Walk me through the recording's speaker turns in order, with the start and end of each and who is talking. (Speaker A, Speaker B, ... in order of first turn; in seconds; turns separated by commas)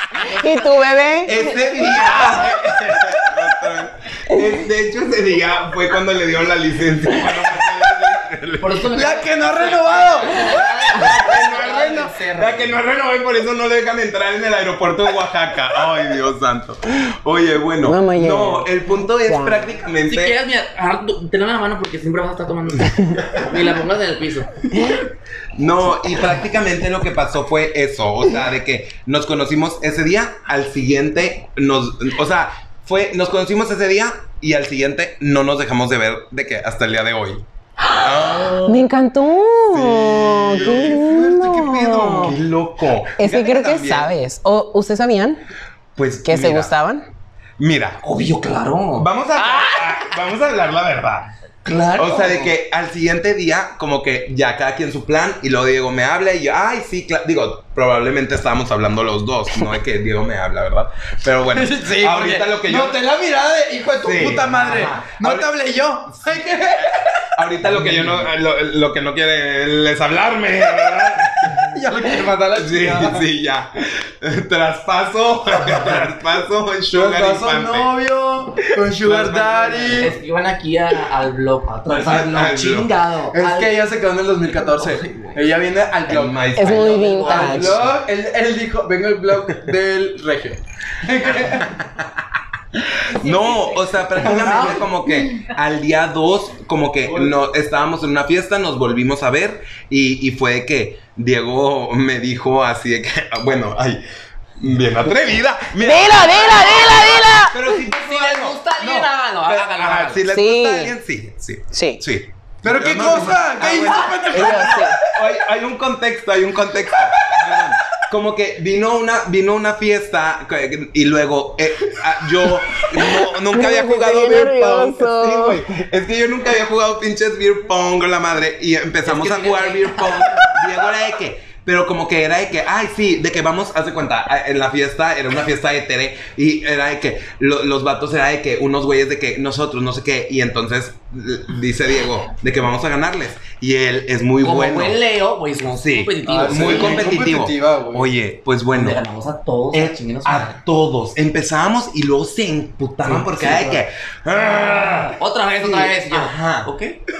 Speaker A: 0.2-1.6, Speaker B: 1.2-20.4, Speaker C: 8.6-12.8, Speaker D: 9.0-10.3, Speaker A: 17.8-18.7, Speaker A: 19.2-19.7, Speaker C: 20.1-24.6, Speaker B: 25.6-38.8, Speaker A: 38.6-42.4, Speaker B: 39.7-44.1, Speaker A: 43.2-45.4, Speaker B: 46.0-46.7, Speaker A: 46.2-47.1, Speaker B: 47.6-48.0, Speaker C: 48.0-50.0, Speaker B: 49.0-51.3, Speaker C: 51.6-52.5, Speaker B: 51.9-63.0, Speaker D: 61.5-67.2, Speaker B: 64.0-65.5, Speaker B: 66.1-71.7, Speaker D: 71.6-73.2, Speaker B: 72.5-77.9, Speaker D: 76.9-80.1, Speaker B: 78.8-80.1, Speaker C: 80.0-83.7, Speaker B: 81.9-82.9, Speaker D: 83.3-86.4, Speaker C: 84.5-85.4, Speaker B: 86.1-87.8, Speaker A: 86.5-87.8, Speaker C: 86.6-87.8, Speaker D: 87.2-91.7, Speaker B: 91.6-92.0, Speaker B: 93.1-104.0, Speaker D: 94.2-94.9, Speaker C: 94.2-94.8, Speaker D: 97.1-97.3, Speaker B: 104.6-145.0, Speaker A: 105.8-107.7, Speaker C: 107.7-110.2, Speaker A: 110.3-110.9, Speaker A: 111.7-112.0, Speaker D: 112.6-115.0, Speaker A: 114.3-115.0, Speaker A: 123.3-125.6, Speaker C: 129.0-130.6, Speaker C: 144.4-147.2, Speaker B: 145.7-149.0, Speaker D: 146.3-148.1, Speaker C: 148.7-150.6, Speaker B: 149.7-156.7, Speaker C: 153.0-153.8, Speaker C: 155.1-157.0